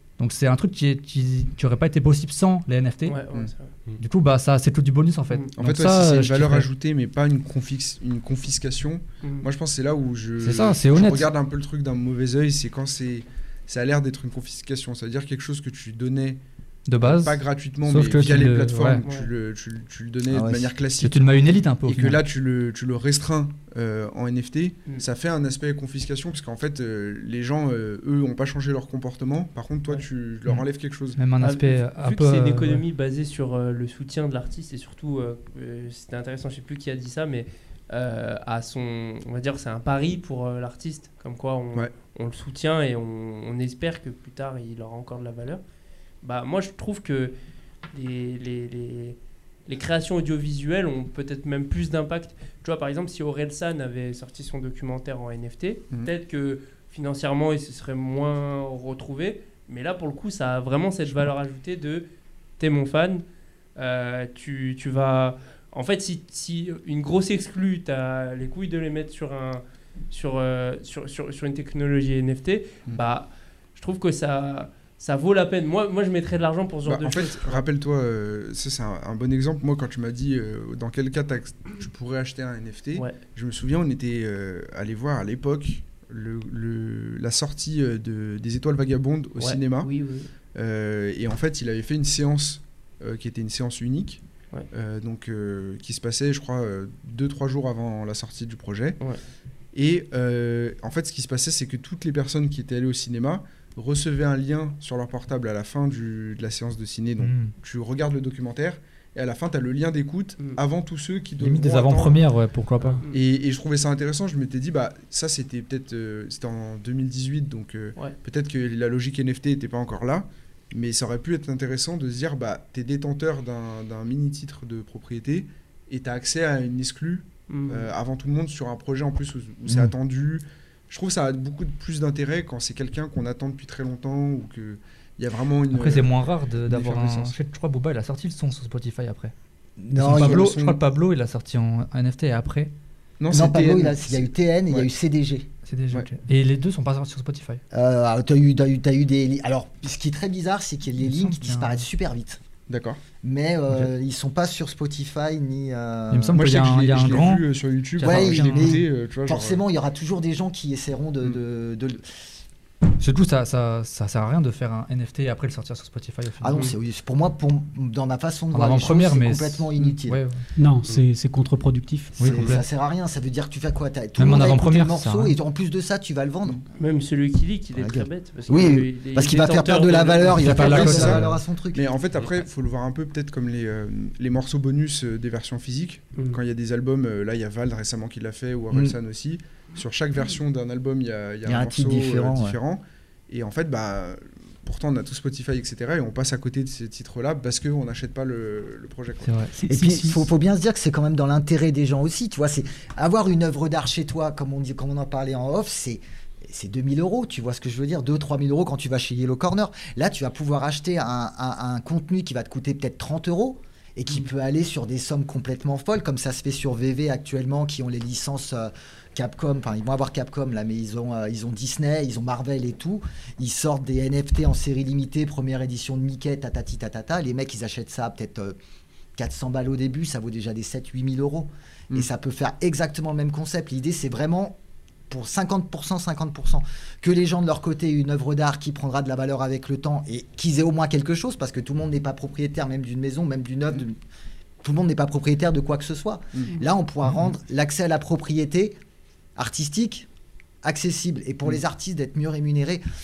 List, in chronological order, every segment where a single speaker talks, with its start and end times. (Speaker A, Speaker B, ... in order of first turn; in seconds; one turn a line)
Speaker A: 0.2-3.2
Speaker B: 3.0-3.7
Speaker A: 4.0-6.7
Speaker C: 5.6-16.4
Speaker A: 10.4-11.3
Speaker A: 16.9-19.0
Speaker C: 17.0-31.2
Speaker B: 19.0-19.3
Speaker D: 20.3-20.7
Speaker A: 21.0-22.2
Speaker A: 31.1-32.8
Speaker B: 31.4-45.6
Speaker B: 46.2-47.3
Speaker B: 47.9-62.0
Speaker B: 62.6-63.2
Speaker B: 63.8-77.6
Speaker C: 76.9-89.9
Speaker B: 89.4-90.3
Speaker C: 90.5-99.0
Speaker C: 99.7-112.2
Speaker A: 107.2-107.5
Speaker A: 111.4-113.0
Speaker B: 112.9-113.2
Speaker C: 113.1-137.3
Speaker B: 127.5-127.9
Speaker A: 135.7-139.3
Speaker D: 139.8-140.5
Speaker A: 139.9-142.7
Speaker C: 140.0-140.8
Speaker C: 143.2-144.9
Speaker D: 143.3-145.5
Speaker A: 145.7-147.6
Speaker D: 147.7-152.4
Speaker A: 151.0-151.8
Speaker C: 152.7-153.0
Speaker D: 153.2-156.4
Speaker A: 156.1-157.4
Speaker C: 156.3-159.6
Speaker A: 158.0-158.8
Speaker D: 158.0-162.1
Speaker A: 163.0-166.7
Speaker D: 166.4-170.2
Speaker A: 168.5-170.4
Speaker E: 170.6-172.2
Speaker A: 172.2-172.6
Speaker D: 172.2-176.6
Speaker A: 174.2-175.4
Speaker B: 176.7-181.0
Speaker D: 177.8-181.8
Speaker A: 180.4-181.4
Speaker C: 180.6-199.3
Speaker D: 191.4-192.6
Speaker A: 199.2-200.1
Speaker E: 199.6-200.2
Speaker D: 199.7-228.6
Speaker D: 229.2-234.6
Speaker D: 235.1-243.9
Speaker D: 244.6-248.8
Speaker C: 246.3-246.6
Speaker D: 249.4-250.1
Speaker D: 250.6-252.8